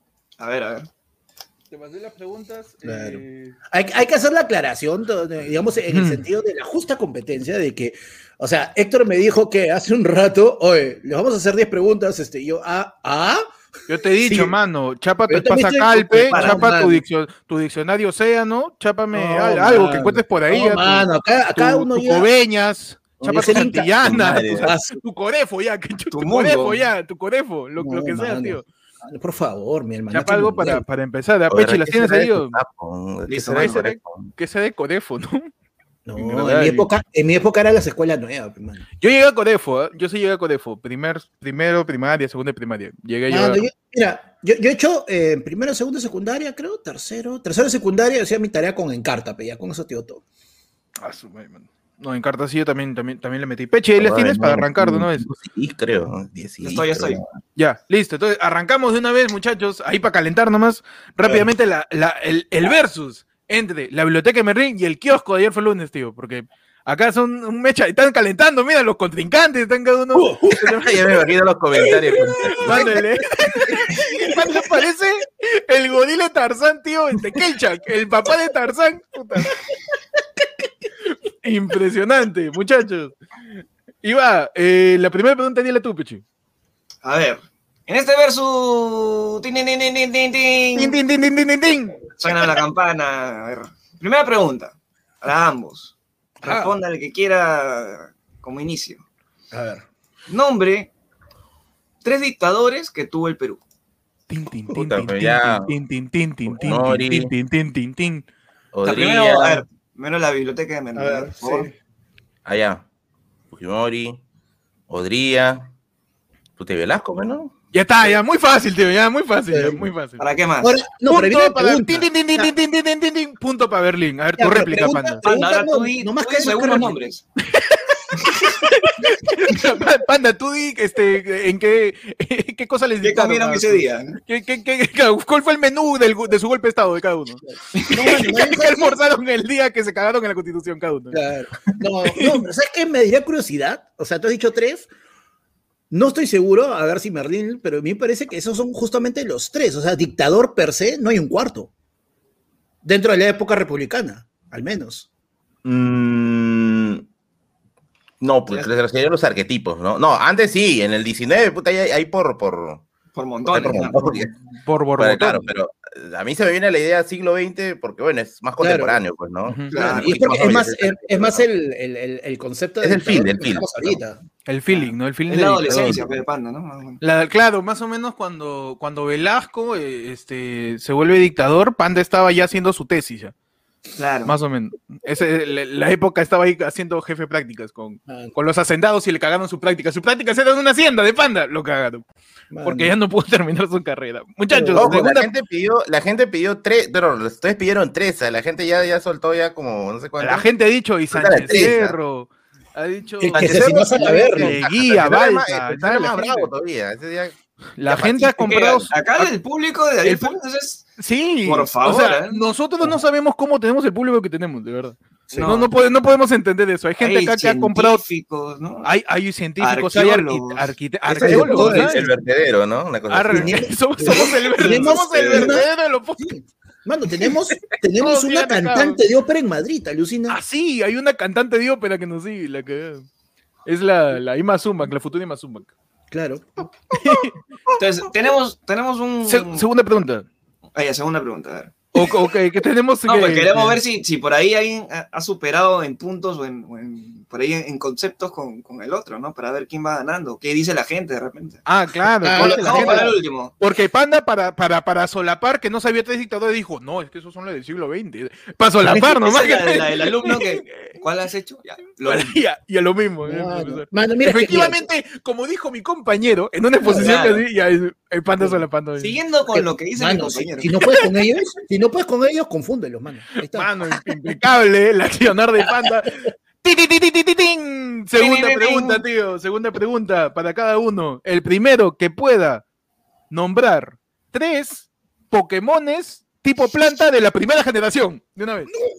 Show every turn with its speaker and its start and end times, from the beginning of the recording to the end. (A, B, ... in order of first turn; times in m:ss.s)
0:00.4-0:00.9 A
0:01.7-0:03.6 B
0:02.8-0:13.4 C
0:05.9-0:06.2 B
0:13.9-0:28.6 B
0:14.2-0:14.5 D
0:15.3-0:17.0 C
0:16.3-0:16.7 A
0:19.1-0:22.3 C
0:23.2-0:24.7 D
0:23.2-0:23.9 C
0:24.6-0:25.0 C
0:26.1-0:26.8 A
0:27.8-0:30.8 C
0:30.1-0:32.6 B
0:31.5-0:34.3 D
0:33.3-0:33.8 A
0:33.6-0:35.5 B
0:36.0-0:38.8 C
0:36.2-0:36.8 D
0:36.4-0:36.8 B
0:39.0-0:43.7 B
0:43.3-0:50.2 C
0:51.0-0:55.3 B
0:54.0-0:57.2 D
0:56.6-0:57.2 A
0:57.6-1:10.9 B
1:10.1-1:10.8 C
1:10.6-1:13.0 D
1:11.7-1:13.0 C
1:12.6-1:19.6 B
1:13.5-1:14.5 C
1:21.4-1:23.2 B
1:24.0-1:26.2 B
1:27.0-1:31.0 A
1:30.8-1:32.0 B
1:32.2-1:39.0 A
1:36.4-1:36.7 C
1:39.5-1:39.8 C
1:40.3-1:40.9 A
1:42.0-1:43.6 A
1:44.3-1:48.2 B
1:44.7-1:45.8 D
1:46.4-1:47.3 D
1:48.7-1:49.6 D
1:48.8-1:51.7 A
1:50.9-1:51.7 C
1:52.4-1:52.8 D
1:53.5-1:54.2 D
1:54.9-1:55.7 D
1:56.6-1:57.5 D
1:57.7-2:00.2 B
1:59.5-1:59.8 C
2:00.2-2:00.7 A
2:00.6-2:02.5 C
2:01.1-2:05.2 B
2:04.4-2:07.0 C
2:05.2-2:07.2 A
2:07.4-2:17.4 B
2:13.0-2:14.2 A
2:17.7-2:18.3 A
2:17.8-2:19.0 C
2:18.0-2:21.2 B
2:21.1-2:24.9 C
2:22.0-2:22.4 B
2:25.9-2:31.7 C
2:32.8-2:35.0 C
2:35.6-2:37.0 D
2:38.2-2:42.8 D
2:43.1-2:44.2 A
2:43.4-2:44.3 D
2:44.5-2:45.5 B
2:45.0-2:51.4 D
2:48.6-2:49.0 C
2:49.4-2:49.7 B
2:49.7-2:50.5 A
2:49.8-2:54.2 C
2:52.8-2:54.0 D
2:54.4-2:56.1 B
2:55.3-2:57.0 A
2:55.7-2:56.0 D
2:57.0-3:03.3 B
3:04.0-3:04.3 A
3:04.2-3:12.0 B
3:08.1-3:08.3 C
3:12.5-3:12.9 C
3:12.6-3:15.3 B
3:14.5-3:15.0 C
3:14.8-3:20.5 D
3:20.2-3:26.5 B
3:21.1-3:22.0 D
3:23.2-3:24.6 C
3:23.3-3:28.3 D
3:27.8-3:29.3 B
3:28.2-3:30.9 A
3:30.0-3:30.4 B
3:31.0-3:38.0 B
3:31.4-3:32.4 A
3:35.3-3:35.7 A
3:37.0-3:38.9 A
3:38.8-3:42.1 B
3:39.6-3:40.7 A
3:41.1-3:44.2 D
3:41.2-3:41.8 C
3:41.6-3:42.1 A
3:43.1-3:46.3 B
3:43.3-3:50.4 C
3:44.7-3:45.5 A
3:48.0-3:49.0 B
3:50.3-3:53.1 B
3:53.6-3:55.7 B
3:56.1-3:56.6 C
3:56.9-3:57.4 B
3:57.8-3:59.6 A
3:59.2-4:00.2 B
4:00.7-4:01.9 A
4:01.9-4:03.8 B
4:03.0-4:11.6 A
4:11.6-4:21.0 B
4:12.2-4:13.1 C
4:12.3-4:13.5 A
4:18.8-4:22.3 A
4:22.0-4:29.2 B
4:23.2-4:24.9 C
4:26.8-4:27.2 C
4:26.9-4:27.4 A
4:29.0-4:30.7 A
4:29.5-4:34.4 C
4:33.4-4:42.6 B
4:38.2-4:39.0 A
4:43.3-4:48.7 B